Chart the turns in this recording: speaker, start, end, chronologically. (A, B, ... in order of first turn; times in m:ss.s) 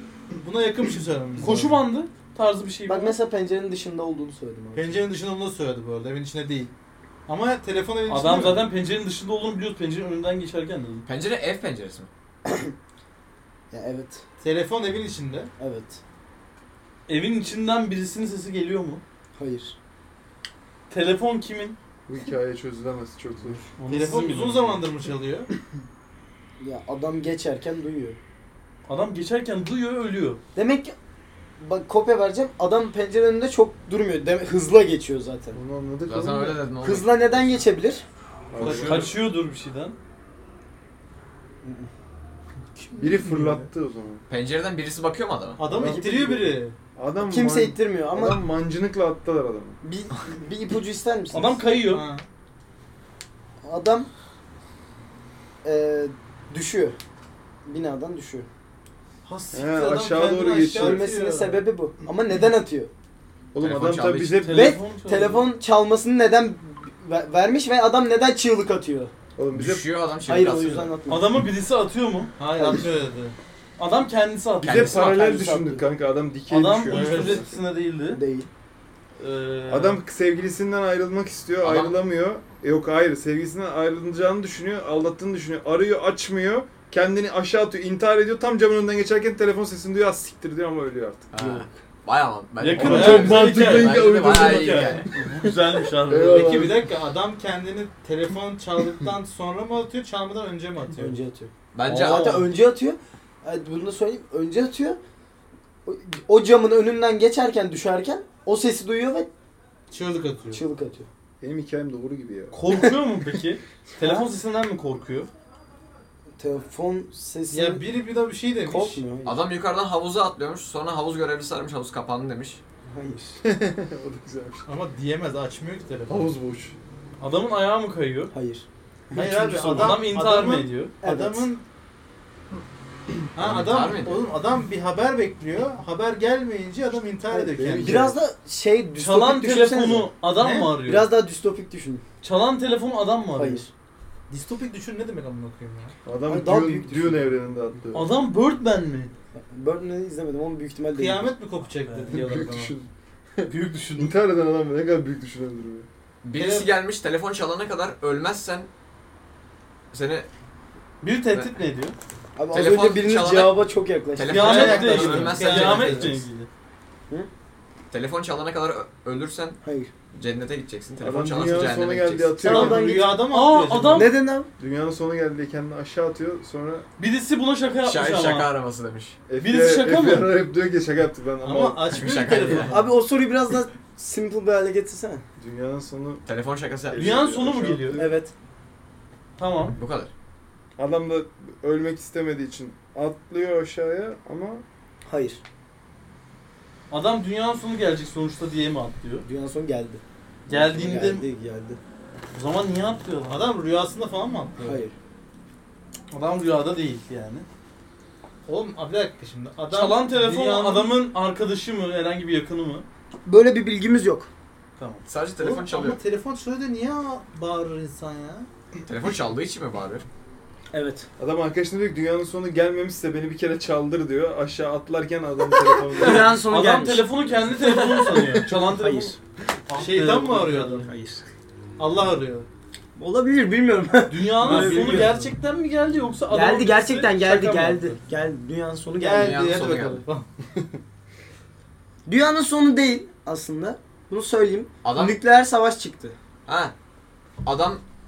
0:00.4-0:01.8 A
0:01.4-0:03.2 B
0:02.9-0:05.1 C
0:04.7-0:06.7 A
0:07.3-0:08.7 A
0:08.1-0:11.1 B
0:11.0-0:12.1 D
0:12.4-0:12.7 C
0:13.7-0:14.2 C
0:14.4-0:15.5 A
0:15.6-0:16.0 C
0:17.1-0:19.0 B
0:19.4-0:19.8 C
0:20.9-0:21.8 B
0:22.1-0:23.7 E
0:23.8-0:24.8 B
0:23.9-0:25.5 A
0:26.6-0:28.2 C
0:28.9-0:30.4 B
0:30.6-0:31.0 C
0:31.6-0:35.6 C
0:35.5-0:36.6 E
0:36.0-0:37.6 D
0:36.8-0:38.0 C
0:38.5-0:39.1 E
0:38.6-0:39.1 D
0:38.6-0:39.0 A
0:38.8-0:40.0 B
0:41.6-0:41.9 C
0:42.8-0:43.7 A
0:43.0-0:44.2 E
0:44.3-0:45.6 D
0:45.6-0:46.8 A
0:45.6-0:49.8 E
0:45.7-0:46.4 C
0:47.2-0:48.4 C
0:49.8-0:51.6 C
0:51.3-0:52.0 B
0:51.9-0:52.3 A
0:53.6-0:54.1 C
0:55.6-0:57.0 C
0:57.7-0:58.5 C
0:59.2-1:01.6 A
0:59.5-1:01.0 E
1:00.7-1:02.9 C
1:03.5-1:04.8 E
1:03.6-1:04.5 D
1:04.4-1:05.5 B
1:04.5-1:09.1 C
1:09.4-1:09.9 E
1:09.5-1:11.0 D
1:10.3-1:11.3 C
1:11.1-1:12.3 B
1:12.4-1:13.4 A
1:12.6-1:12.9 C
1:13.8-1:15.4 B
1:14.6-1:17.5 E
1:14.6-1:15.0 D
1:15.0-1:15.9 C
1:16.5-1:18.2 B
1:16.9-1:17.4 A
1:18.1-1:18.5 C
1:19.2-1:20.0 B
1:19.7-1:31.3 E
1:21.6-1:22.0 D
1:31.3-1:35.1 D
1:31.4-1:31.8 C
1:32.6-1:36.7 B
1:32.7-1:36.8 E
1:32.8-1:33.3 A
1:36.3-1:41.2 A
1:41.0-1:45.0 C
1:41.7-1:42.5 D
1:41.8-1:42.5 B
1:45.9-1:49.3 C
1:49.9-1:50.6 A
1:50.5-1:51.1 C
1:51.4-1:52.6 E
1:52.5-1:55.3 B
1:54.0-1:54.3 A
1:56.4-1:57.8 C
1:57.5-1:59.0 A
1:58.6-1:59.5 C
1:59.2-2:02.6 D
2:02.9-2:03.4 C
2:03.4-2:04.7 E
2:04.7-2:06.3 A
2:06.1-2:06.8 E
2:07.2-2:08.3 B
2:08.3-2:10.0 C
2:09.1-2:11.6 A
2:09.2-2:11.0 B
2:11.0-2:11.5 C
2:13.4-2:18.1 A
2:13.4-2:14.2 D
2:17.3-2:20.1 C
2:17.5-2:18.2 E
2:19.0-2:21.1 B
2:20.3-2:20.7 A
2:20.8-2:22.0 C
2:22.2-2:23.7 B
2:23.4-2:23.7 C
2:24.3-2:26.0 A
2:26.0-2:28.2 E
2:26.3-2:27.3 C
2:27.9-2:29.1 B
2:29.4-2:31.3 C
2:31.0-2:32.7 A
2:31.9-2:32.4 B
2:32.1-2:35.9 E
2:33.5-2:34.2 B
2:36.2-2:38.7 D
2:36.4-2:36.7 A
2:39.9-2:40.3 D
2:41.0-2:42.0 B
2:42.4-2:44.6 C
2:42.5-2:46.2 D
2:44.3-2:46.5 B
2:44.3-2:46.2 A
2:47.9-2:49.6 D
2:49.6-2:49.9 C
2:50.1-2:52.4 D
2:51.0-2:53.1 E
2:52.4-2:53.2 C
2:52.4-2:54.1 A
2:53.3-2:54.2 B
2:53.9-2:54.5 C
2:54.6-2:56.9 E
2:57.0-2:58.5 B
2:57.8-2:59.2 D
2:59.3-3:02.0 E
2:59.4-3:00.4 B
3:01.4-3:02.9 A
3:01.9-3:02.8 D
3:02.7-3:05.2 C
3:05.4-3:06.2 E
3:06.3-3:07.2 D
3:06.9-3:08.2 E
3:07.0-3:08.0 B
3:07.9-3:08.3 C
3:09.4-3:09.8 B
3:09.8-3:10.1 D
3:10.8-3:14.6 E
3:15.1-3:15.4 C
3:16.9-3:19.3 B
3:19.2-3:21.8 C
3:20.5-3:21.2 B
3:22.3-3:23.4 B
3:23.3-3:24.8 A
3:24.6-3:24.9 C
3:26.1-3:27.5 B
3:28.5-3:31.0 A
3:29.7-3:32.9 B
3:33.2-3:34.3 C
3:34.8-3:38.5 A
3:35.1-3:36.0 D
3:38.8-3:40.0 D
3:40.7-3:41.1 C
3:41.2-3:46.4 E
3:46.0-3:47.1 C
3:46.1-3:49.2 B
3:48.4-3:49.2 C
3:49.7-3:50.9 B
3:49.8-3:50.9 A
3:50.8-3:51.3 C
3:51.8-3:52.5 A
3:53.0-3:55.2 C
3:54.1-3:57.9 B
3:54.4-3:55.3 A
3:56.3-3:59.4 C
3:59.0-4:00.3 A
3:59.2-4:00.0 D
4:02.1-4:06.2 C
4:04.8-4:05.2 D
4:06.5-4:06.7 D
4:07.4-4:07.8 D